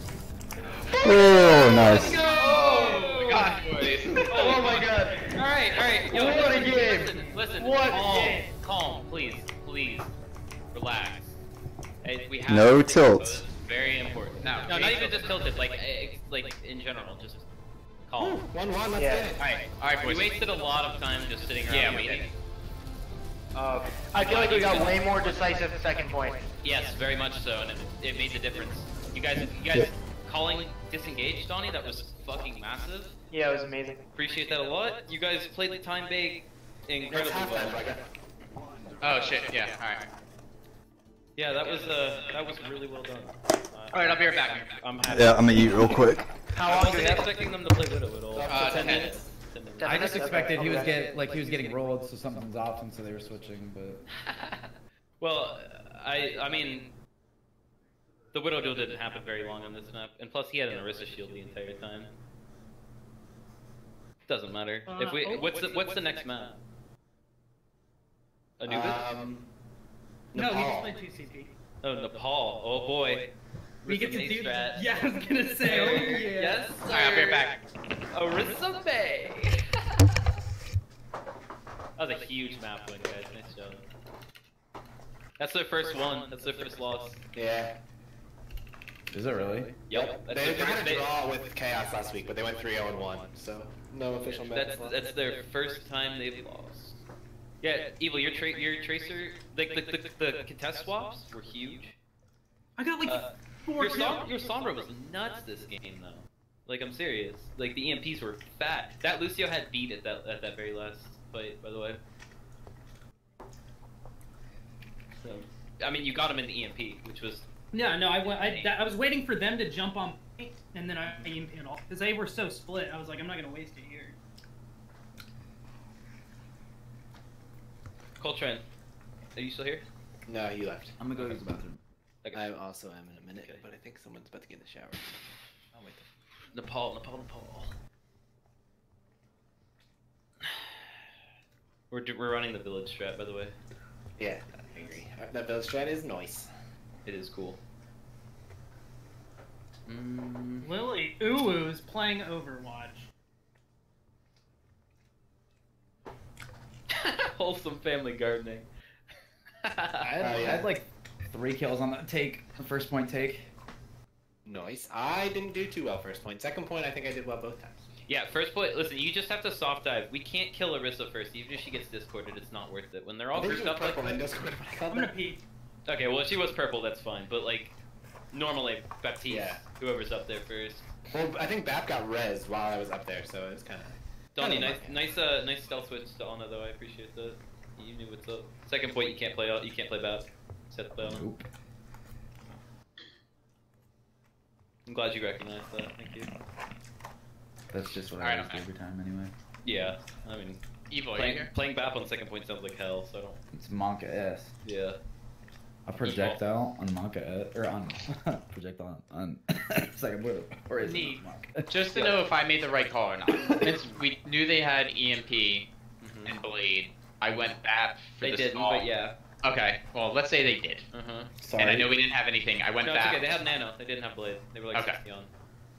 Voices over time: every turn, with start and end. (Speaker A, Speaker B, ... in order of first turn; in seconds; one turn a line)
Speaker A: 1.0-2.2
Speaker B: 1.0-2.2
Speaker C: 1.7-3.5
Speaker D: 1.9-3.5
Speaker E: 2.2-4.3
Speaker F: 3.8-4.3
Speaker D: 4.2-10.1
Speaker A: 4.3-5.4
Speaker C: 4.4-4.7
Speaker A: 6.1-8.1
Speaker C: 6.1-7.3
Speaker C: 7.9-8.4
Speaker D: 10.7-11.3
Speaker D: 12.0-17.4
Speaker B: 12.5-13.4
Speaker E: 14.4-15.4
Speaker D: 18.1-18.5
Speaker F: 18.4-19.4
Speaker A: 18.9-19.3
Speaker E: 19.4-20.4
Speaker D: 20.0-22.3
Speaker E: 21.7-22.3
Speaker D: 23.5-25.5
Speaker A: 24.0-26.4
Speaker D: 26.6-33.1
Speaker A: 33.3-34.0
Speaker D: 34.1-37.9
Speaker F: 37.1-38.0
Speaker E: 39.0-40.0
Speaker D: 41.4-46.0
Speaker E: 43.9-44.8
Speaker B: 45.0-46.3
Speaker A: 46.5-47.4
Speaker D: 46.6-51.7
Speaker F: 48.3-49.3
Speaker E: 48.5-49.1
Speaker A: 49.8-51.1
Speaker G: 49.8-54.0
Speaker D: 54.2-54.6
Speaker D: 55.2-56.9
Speaker D: 58.3-62.1
Speaker D: 64.3-66.6
Speaker C: 64.9-65.8
Speaker D: 68.6-69.1
Speaker F: 68.7-69.5
Speaker F: 70.3-71.0
Speaker C: 70.3-71.5
Speaker D: 71.8-74.9
Speaker C: 73.8-76.7
Speaker D: 75.6-77.5
Speaker E: 76.9-77.6
Speaker D: 78.1-79.6
Speaker D: 82.0-83.8
Speaker D: 85.4-87.2
Speaker F: 87.3-87.7
Speaker G: 89.1-89.8
Speaker D: 89.9-91.1
Speaker F: 89.9-95.0
Speaker D: 94.2-97.0
Speaker D: 97.6-102.0
Speaker C: 102.8-104.3
Speaker D: 103.0-112.0
Speaker D: 115.2-117.5
Speaker C: 117.7-124.2
Speaker D: 118.2-118.7
Speaker D: 128.2-128.6
Speaker D: 129.3-129.8
Speaker F: 130.3-131.4
Speaker G: 131.0-131.8
Speaker D: 132.2-132.5
Speaker F: 132.3-136.0
Speaker D: 133.3-133.6
Speaker D: 136.5-137.7
Speaker D: 141.9-143.5
Speaker F: 144.2-146.5
Speaker D: 147.0-147.6
Speaker D: 149.8-150.7
Speaker C: 150.6-153.1
Speaker D: 156.9-158.7
Speaker D: 159.6-160.1
Speaker F: 160.0-160.7
Speaker G: 160.2-163.5
Speaker F: 164.4-167.8
Speaker D: 168.1-174.2
Speaker F: 173.3-175.1
Speaker C: 174.9-175.4
Speaker D: 175.8-177.7
Speaker D: 178.3-180.8
Speaker F: 179.3-179.6
Speaker F: 181.1-185.0
Speaker D: 184.3-191.3
Speaker G: 191.0-191.4
Speaker D: 194.8-196.3
Speaker G: 197.7-199.3
Speaker E: 198.2-198.6
Speaker D: 199.6-200.6
Speaker E: 200.9-201.5
Speaker D: 201.1-203.4
Speaker G: 203.5-204.5
Speaker D: 204.6-205.0
Speaker G: 205.8-212.1
Speaker D: 206.0-206.4
Speaker E: 210.8-215.7
Speaker G: 213.3-213.7
Speaker D: 216.0-216.3
Speaker E: 216.2-218.9
Speaker D: 218.2-219.1
Speaker E: 219.4-220.8
Speaker D: 220.9-221.3
Speaker G: 221.4-221.9
Speaker E: 221.6-223.2
Speaker D: 222.8-225.3